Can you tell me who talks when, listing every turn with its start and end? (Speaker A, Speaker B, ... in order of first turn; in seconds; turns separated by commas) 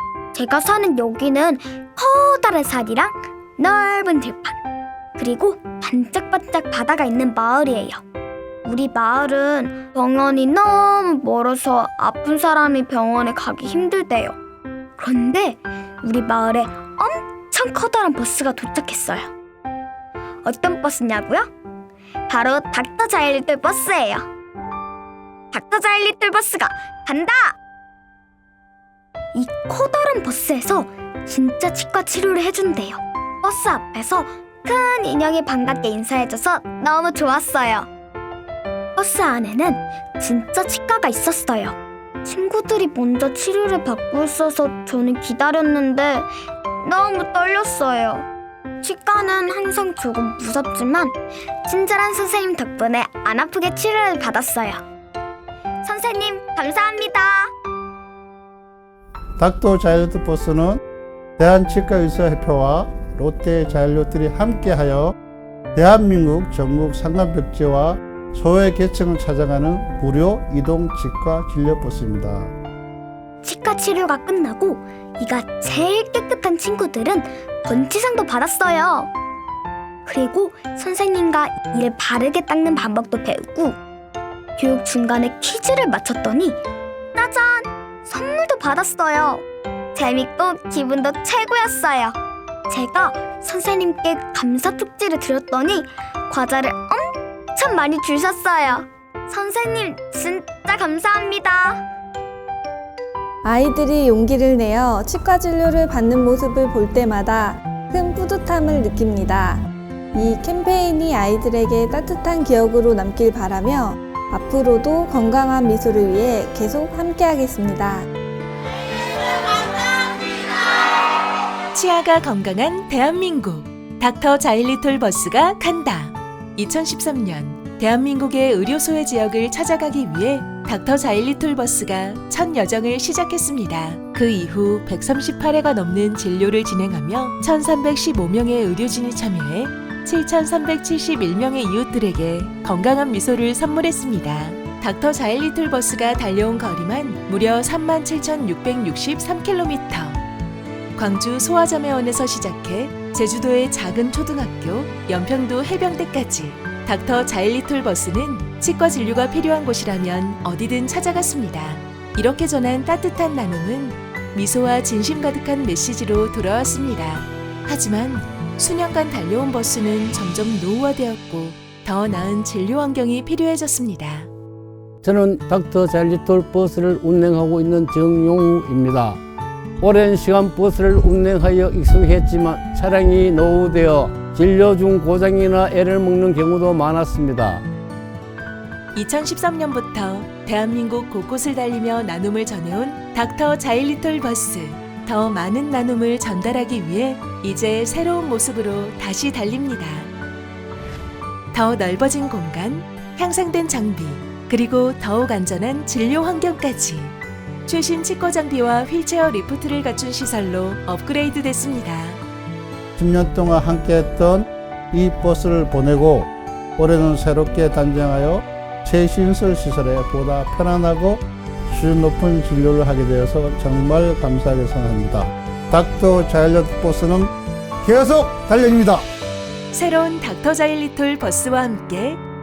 Speaker A: 0.3-4.6, Speaker A: 5.2-8.0, Speaker A: 8.6-14.3, Speaker A: 15.0-19.3, Speaker A: 20.4-21.5, Speaker A: 22.3-24.3, Speaker A: 25.5-27.6, Speaker A: 29.3-37.9, Speaker A: 39.0-46.3, Speaker A: 46.8-48.3, Speaker A: 48.8-54.8, Speaker A: 55.8-57.5, Speaker B: 59.4-60.8, Speaker B: 61.4-65.1, Speaker B: 65.7-72.5, Speaker A: 73.4-79.1, Speaker A: 80.0-83.8, Speaker A: 84.6-86.6, Speaker A: 87.1-92.2, Speaker A: 92.7-101.8, Speaker C: 103.4-109.6, Speaker C: 110.1-118.1, Speaker D: 121.7-150.2, Speaker D: 150.9-174.3, Speaker E: 175.0-179.2, Speaker E: 179.8-187.6, Speaker D: 188.9-200.1, Speaker D: 201.5-207.1, Speaker D: 207.7-212.2, Speaker B: 213.0-229.0, Speaker D: 229.7-232.2